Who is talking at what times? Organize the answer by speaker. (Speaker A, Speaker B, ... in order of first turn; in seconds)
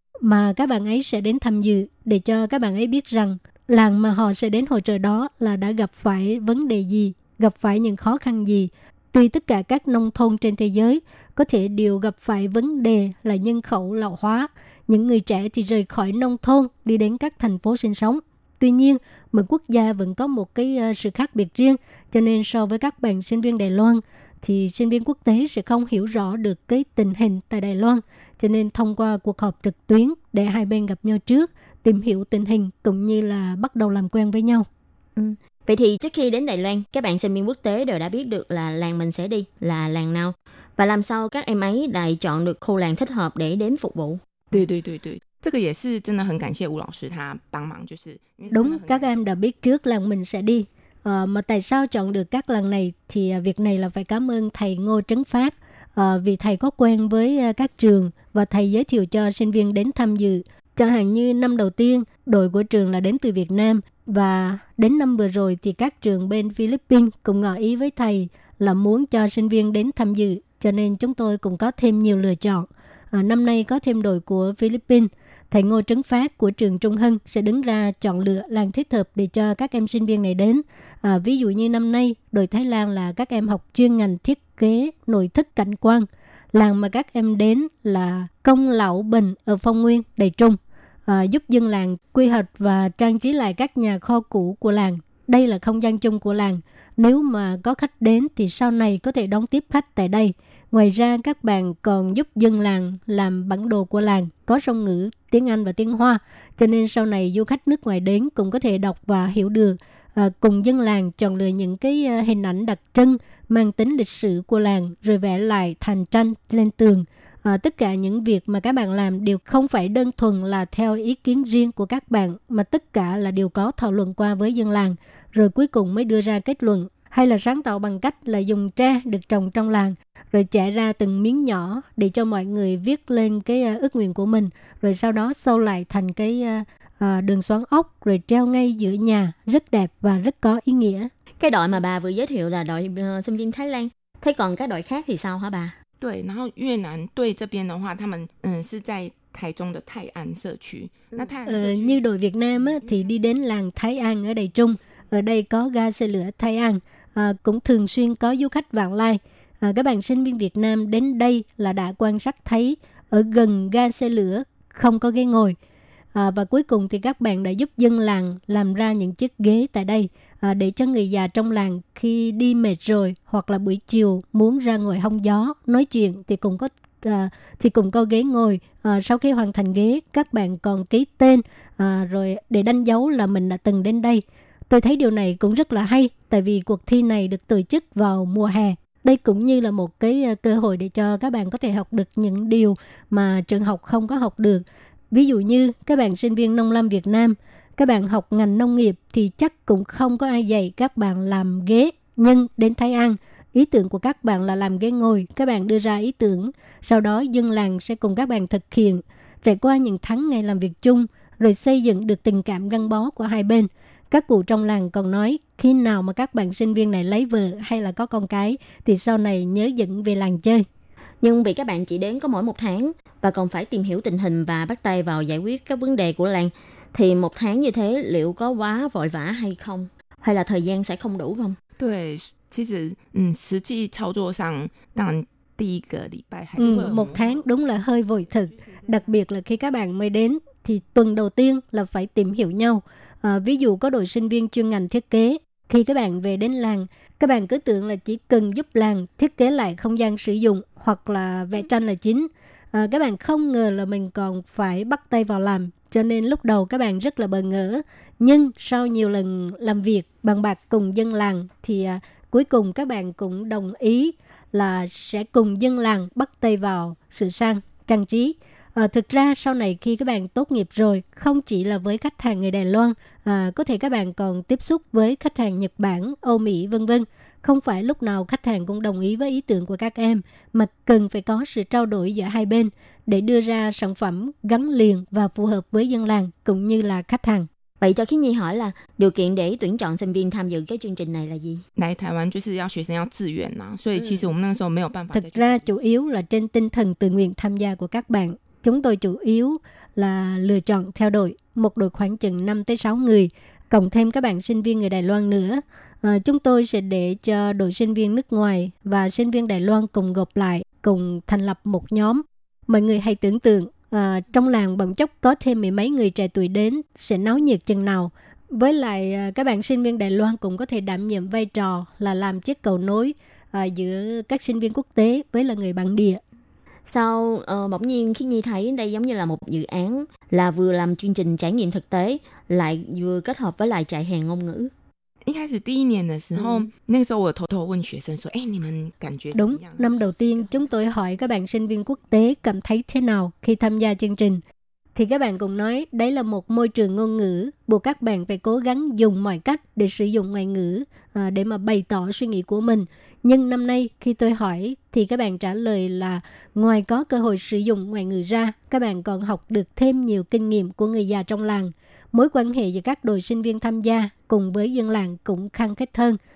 Speaker A: 0.2-34.7, 48.5-141.1, 151.5-165.6, 166.1-220.7, 236.6-287.5, 295.1-326.2, 339.3-344.4, 344.9-366.2
Speaker B: 35.2-44.2, 141.4-145.8, 221.2-231.6, 287.8-291.6, 326.9-334.7
Speaker C: 44.5-49.2, 146.0-152.0, 231.8-237.5, 238.6-239.0, 291.8-295.7, 335.2-340.6